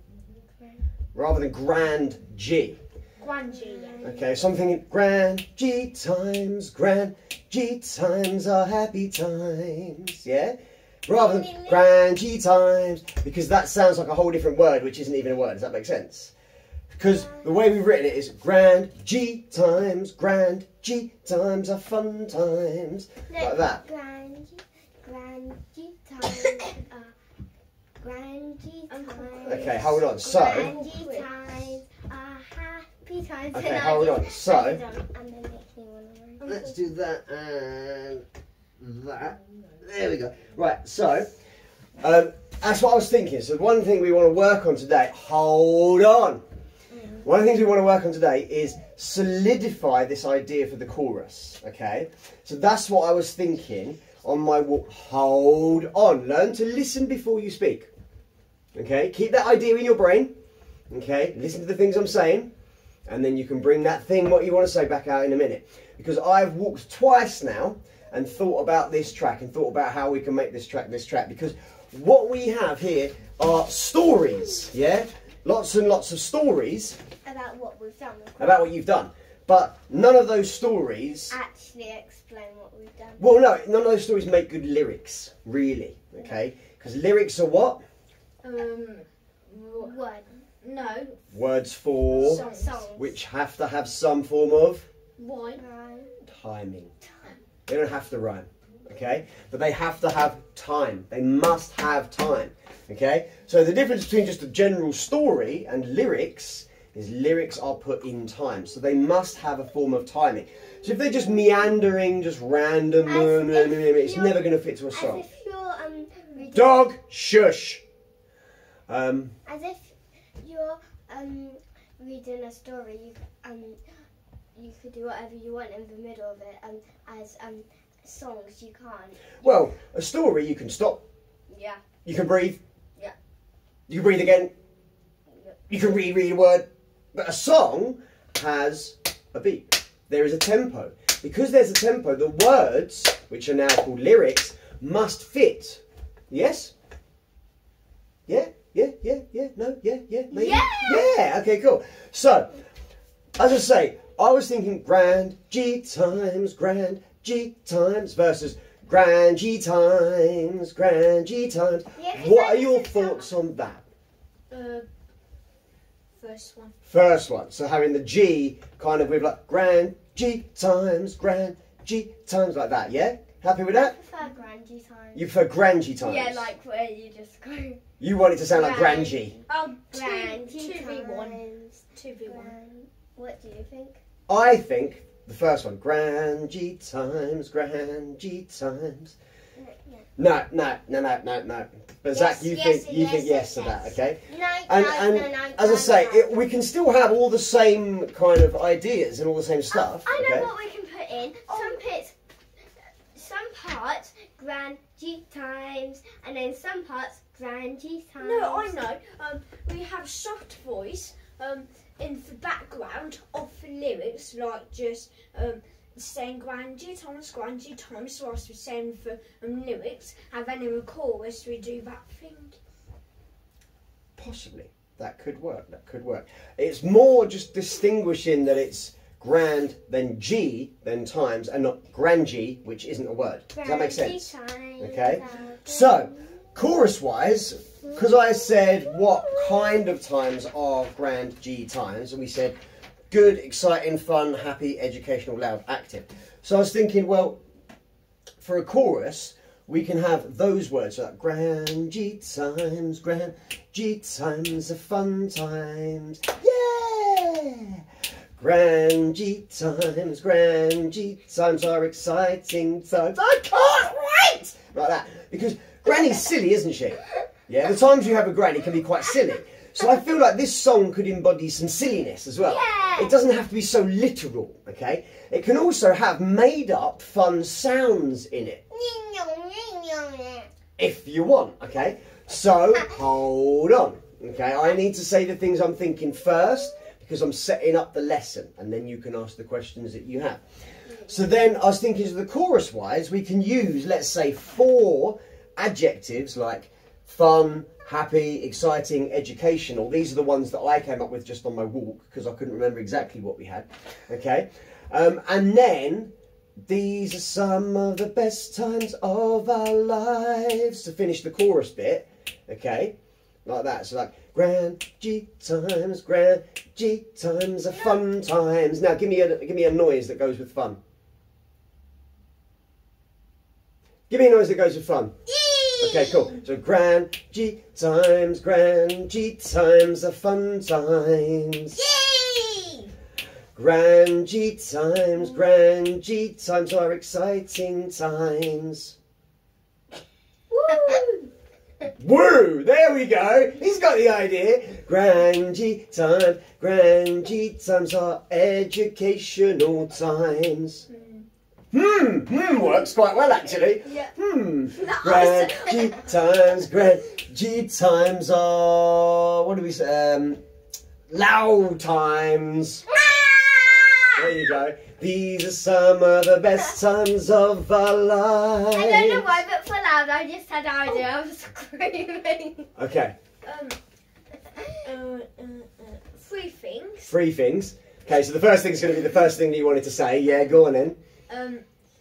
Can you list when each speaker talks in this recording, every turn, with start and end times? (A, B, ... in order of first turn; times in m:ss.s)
0:00.5-0:00.8 A
0:01.1-0:02.8 B
0:03.2-0:04.0 C
0:03.5-0:04.3 A
0:04.0-0:16.3 B
0:11.1-0:11.8 A
0:16.9-0:23.8 B
0:17.1-0:17.4 A
0:23.3-0:27.1 A
0:28.0-0:36.5 A
0:28.9-0:31.3 C
0:29.5-0:30.7 B
0:33.5-0:34.8 B
0:36.4-0:36.7 C
0:36.4-0:38.2 B
0:38.8-0:41.3 B
0:42.0-0:46.4 B
0:46.9-0:47.2 A
0:47.2-0:57.9 B
0:58.7-1:00.3 B
1:00.9-1:02.5 B
1:03.1-1:17.0 B
1:17.2-1:18.6 A
1:18.4-1:21.4 B
1:21.3-1:23.4 A
1:23.2-1:27.8 B
1:28.4-1:30.0 C
1:29.8-1:30.3 A
1:30.6-1:31.2 C
1:31.3-1:32.4 B
1:32.1-1:32.8 C
1:32.2-1:33.1 A
1:32.9-1:34.9 B
1:35.2-1:35.6 C
1:35.5-1:36.1 A
1:36.2-1:36.9 B
1:37.7-1:55.2 B
1:53.0-1:56.9 A
1:56.5-1:57.8 B
1:58.9-1:59.3 B
1:59.4-2:03.8 A
2:04.5-2:09.3 A
2:09.4-2:11.0 B
2:11.5-2:11.8 A
2:12.0-2:12.6 B
2:13.9-2:14.5 B
2:15.7-2:26.7 B
2:28.3-2:32.5 B
2:30.4-2:31.0 A
2:30.4-2:31.0 C
2:33.4-2:43.8 B
2:42.0-2:43.3 A
2:44.5-2:44.8 C
2:46.2-2:46.7 C
2:46.8-2:53.9 B
2:53.7-2:55.3 A
2:55.1-2:56.5 B
2:56.0-2:57.8 A
2:58.0-2:59.4 B
2:58.5-3:04.0 A
2:59.5-3:01.4 C
3:01.9-3:02.5 C
3:04.3-3:09.2 B
3:09.6-3:10.0 A
3:10.2-3:20.5 B
3:12.1-3:14.0 C
3:14.3-3:16.4 A
3:19.7-3:22.1 A
3:21.5-3:21.8 C
3:23.1-3:28.8 A
3:28.2-3:42.6 C
3:44.2-4:02.6 B
3:53.5-3:56.1 A
4:03.1-4:07.4 B
4:08.4-4:17.8 B
4:18.4-4:38.6 B
4:32.5-4:33.0 C
4:32.8-4:33.1 A
4:38.7-4:40.5 A
4:40.8-4:50.4 B
4:51.0-5:06.1 B
5:06.6-5:20.8 B
5:24.1-5:25.1 B
5:25.4-5:26.0 A
5:25.8-5:31.8 B
5:31.8-5:32.9 C
5:33.6-5:39.0 B
5:40.5-5:41.3 C
5:40.7-5:41.0 A
5:42.0-5:50.8 B
5:50.9-5:51.2 C
5:51.7-6:00.4 B
5:53.8-5:54.1 A
5:54.8-5:55.9 C
6:01.1-6:02.8 B
6:02.9-6:04.3 A
6:04.1-6:09.4 B
6:08.7-6:12.7 A
6:12.8-6:13.2 B
6:13.4-6:13.8 C
6:14.8-6:17.1 C
6:17.0-6:21.0 B
6:21.3-6:21.6 C